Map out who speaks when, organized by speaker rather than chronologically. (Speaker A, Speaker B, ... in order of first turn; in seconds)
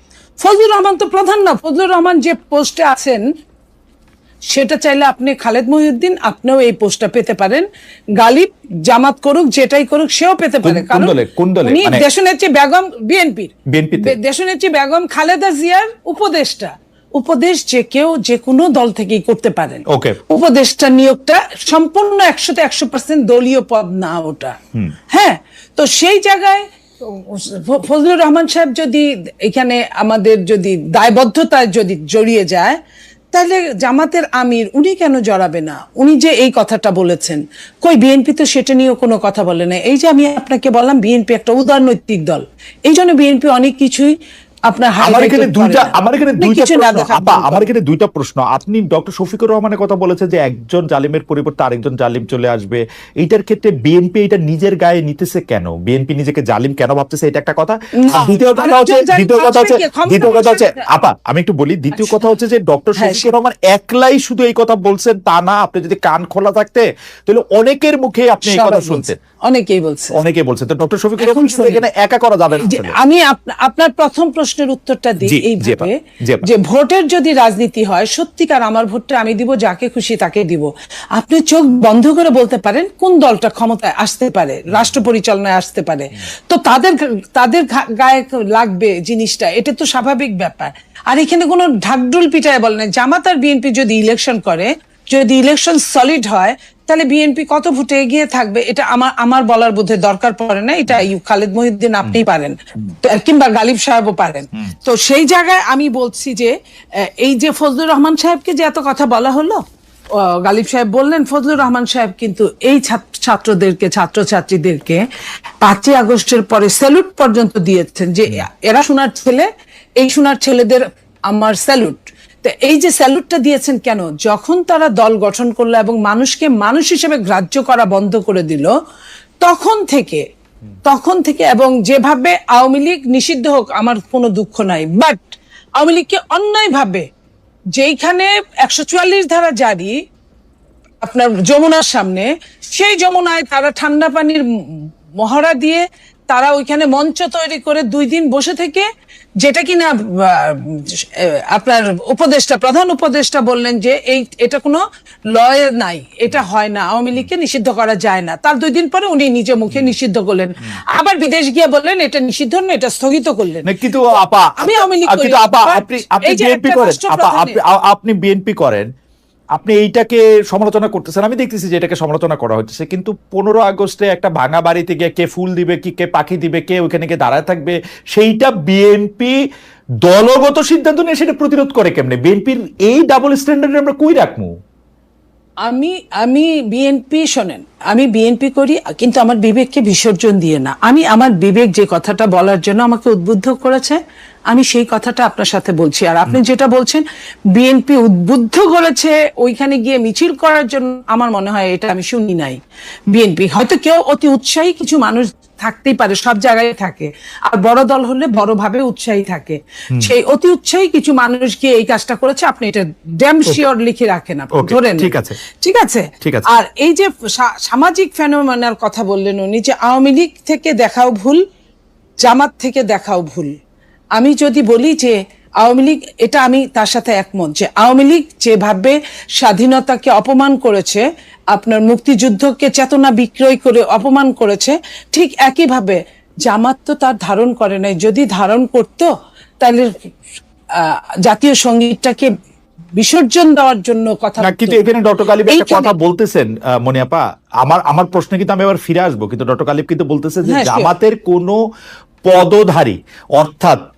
Speaker A: 0.4-3.2, 4.5-11.1, 11.6-24.6, 25.1-32.8, 33.3-44.1, 44.7-47.7, 58.0-60.9, 63.0-63.3, 68.4-70.1, 71.2-71.8, 72.6-106.5, 107.2-109.6, 110.2-115.0, 115.6-119.5, 120.0-128.7, 129.4-130.2, 130.8-137.0, 137.8-139.9, 141.0-148.8, 149.4-163.7, 164.6-167.6, 185.6-194.0, 194.5-197.0, 197.5-202.6, 203.1-221.4, 222.2-223.5, 224.2-239.1, 239.6-239.9, 240.7-242.3, 242.9-244.8, 245.5-245.9, 250.4-250.9
Speaker B: 10.6-12.0, 13.7-14.2, 19.9-20.2, 45.0-69.2, 70.1-73.0, 75.2-76.5, 84.7-85.0, 163.7-168.8, 169.6-179.4, 180.0-184.5, 214.5-215.4, 216.2-216.5, 244.4-251.6, 252.2-253.8